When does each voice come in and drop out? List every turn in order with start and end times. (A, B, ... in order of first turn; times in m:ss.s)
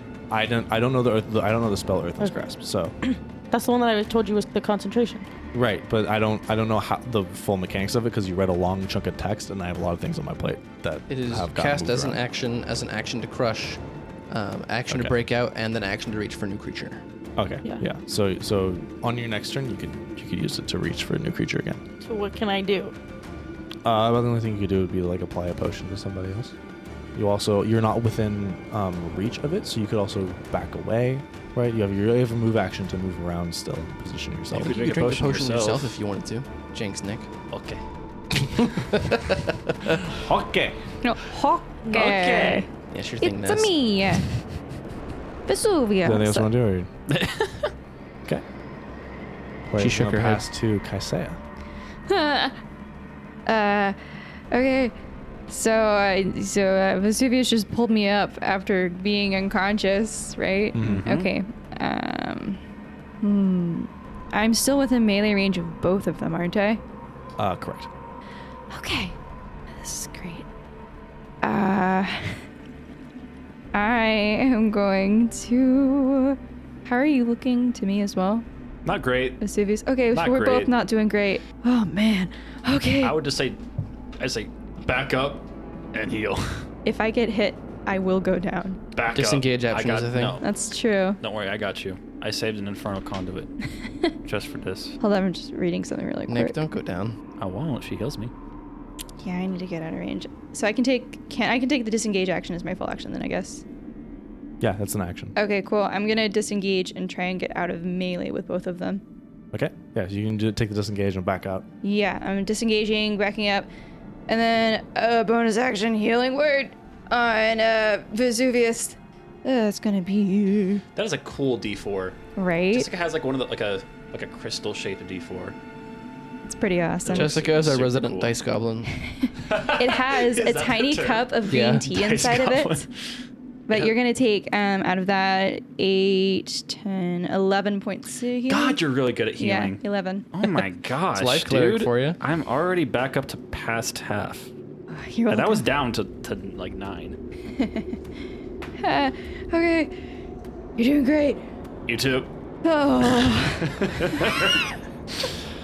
0:00.3-0:02.9 A
0:03.0-0:05.3 B
0:05.5-0:12.2 A
0:11.1-0:17.0 C
0:14.9-0:15.1 A
0:17.4-0:21.8 A
0:22.0-0:22.9 B
0:23.8-0:26.5 A
0:27.1-0:34.8 A
0:34.5-0:35.9 D
0:34.6-0:37.3 C
0:37.5-0:37.8 D
0:38.6-0:39.7 C
0:40.2-0:40.8 A
0:41.0-0:42.7 E
0:41.8-0:42.6 D
0:42.9-0:43.7 C
0:43.2-0:44.3 E
0:45.5-0:46.5 E
0:46.0-0:46.9 A
0:47.1-0:47.7 D
0:49.6-0:51.4 A
0:49.8-0:50.4 C
0:52.1-0:52.6 E
0:53.4-0:54.0 E
0:54.5-0:54.9 E
0:55.5-1:02.6 E
1:00.7-1:01.0 A
1:00.8-1:01.3 D
1:03.2-1:06.8 E
1:07.4-1:07.9 A
1:08.7-1:09.2 E
1:09.7-1:10.4 E
1:11.4-1:12.5 E
1:13.7-1:18.4 E
1:18.8-1:19.4 D
1:19.4-1:23.2 E
1:20.1-1:20.7 D
1:23.0-1:23.6 D
1:24.2-1:26.7 D
1:26.8-1:28.8 E
1:28.9-1:30.4 D
1:29.1-1:30.4 C
1:30.4-1:31.2 E
1:31.2-1:33.5 D
1:34.2-1:35.0 D
1:35.0-1:36.6 E
1:36.3-1:37.1 C
1:37.4-1:38.3 D
1:39.2-1:43.6 E
1:44.6-1:45.3 A
1:45.3-1:49.0 E
1:49.5-1:51.6 A
1:51.8-1:53.7 E
1:54.3-2:00.8 E
2:00.9-2:02.2 D
2:02.4-2:02.9 E
2:02.7-2:05.6 D
2:06.4-2:07.4 E
2:07.0-2:08.3 D
2:07.1-2:08.9 C
2:09.0-2:12.8 E
2:09.5-2:12.9 D
2:11.5-2:11.9 C
2:13.7-2:18.8 E
2:18.5-2:19.8 D
2:19.4-2:20.3 E
2:20.3-2:24.5 D
2:21.1-2:22.2 C
2:24.9-2:25.6 E
2:25.3-2:27.2 D
2:27.5-2:28.0 E
2:28.8-2:29.9 E
2:30.8-2:31.4 E
2:31.9-2:32.3 D
2:32.6-2:34.2 E
2:33.2-2:34.6 D